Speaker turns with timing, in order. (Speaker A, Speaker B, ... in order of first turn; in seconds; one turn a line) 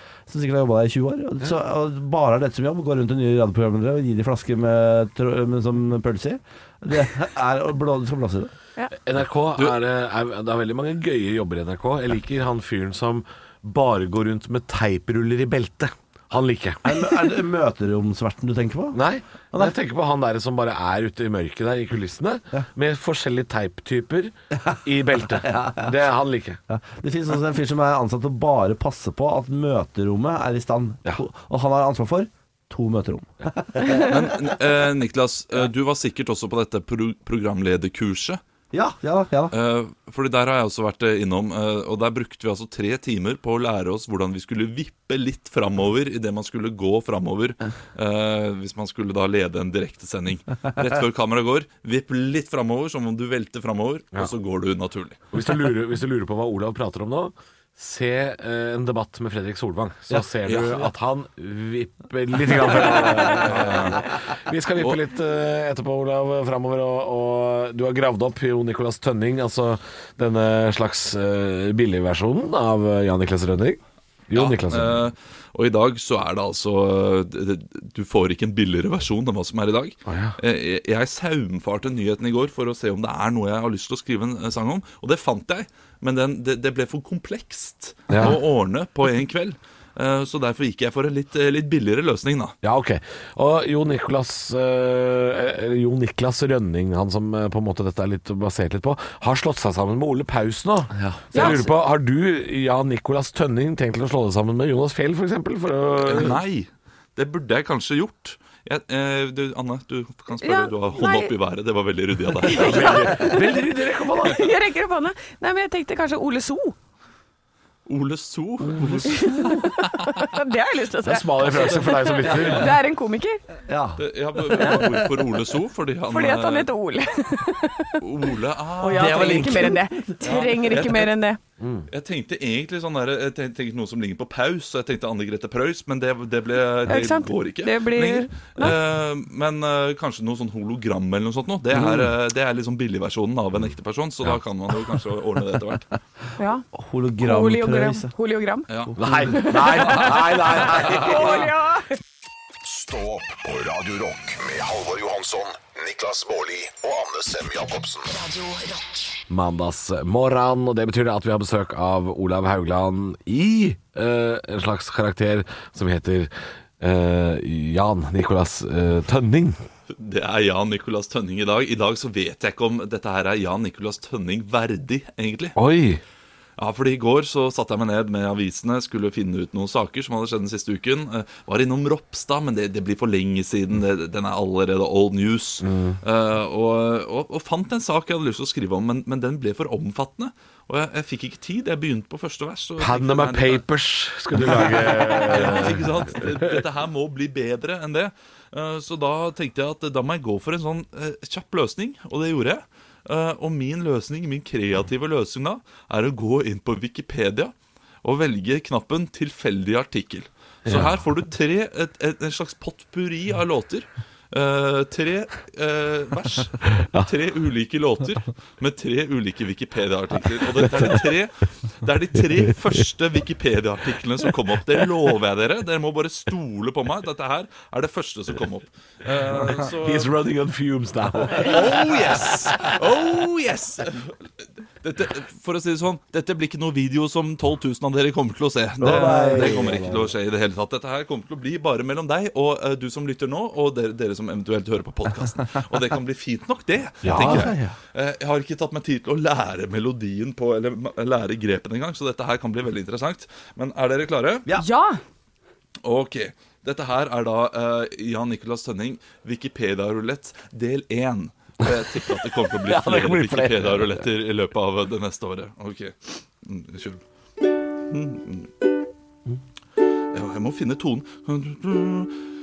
Speaker A: 0.3-8.5
Speaker B: 8.9-17.0
Speaker A: 16.9-19.0
Speaker B: 18.9-26.6
Speaker A: 25.4-25.9
Speaker A: 26.7-34.1
Speaker C: 33.9-38.4
Speaker A: 38.7-39.5
Speaker C: 39.5-55.3
Speaker B: 55.3-75.0
Speaker C: 60.5-60.8
Speaker C: 63.5-64.0
Speaker C: 74.3-92.5
Speaker B: 80.1-80.3
Speaker B: 88.1-88.4
Speaker B: 92.6-106.4
Speaker A: 100.9-101.3
Speaker D: 101.3-101.7
Speaker C: 106.0-112.8
Speaker D: 110.4-111.3
Speaker D: 112.4-113.6
Speaker B: 112.5-114.5
Speaker D: 114.2-116.8
Speaker C: 117.9-120.2
Speaker B: 118.8-119.0
Speaker D: 119.1-123.4
Speaker B: 121.0-122.7
Speaker A: 121.5-122.7
Speaker A: 123.7-124.0
Speaker C: 124.0-126.7
Speaker A: 124.5-124.9
Speaker D: 124.6-124.9
Speaker D: 126.1-128.1
Speaker C: 128.0-129.6
Speaker D: 128.8-131.4
Speaker A: 128.9-130.2
Speaker C: 130.2-131.1
Speaker C: 131.9-145.9
Speaker D: 136.9-138.5
Speaker D: 146.4-146.7
Speaker A: 146.7-148.1
Speaker D: 147.2-152.0
Speaker C: 148.7-148.9
Speaker A: 148.9-151.4
Speaker B: 149.0-151.4
Speaker E: 152.6-158.5
Speaker B: 159.3-169.6
Speaker C: 169.9-175.6
Speaker B: 175.6-176.0
Speaker C: 176.6-193.7
Speaker B: 185.6-186.0
Speaker B: 192.8-196.5
Speaker C: 194.4-230.1
Speaker B: 210.7-211.0
Speaker B: 216.8-217.1
Speaker B: 222.3-222.7
Speaker B: 229.3-232.1
Speaker C: 231.3-234.3
Speaker C: 234.8-254.5
Speaker A: 238.8-239.9
Speaker B: 239.0-240.0
Speaker B: 247.0-247.5
Speaker A: 247.1-247.7
Speaker D: 254.6-255.0
Speaker C: 255.8-267.0
Speaker B: 262.9-264.0
Speaker C: 267.8-268.6
Speaker C: 270.1-272.2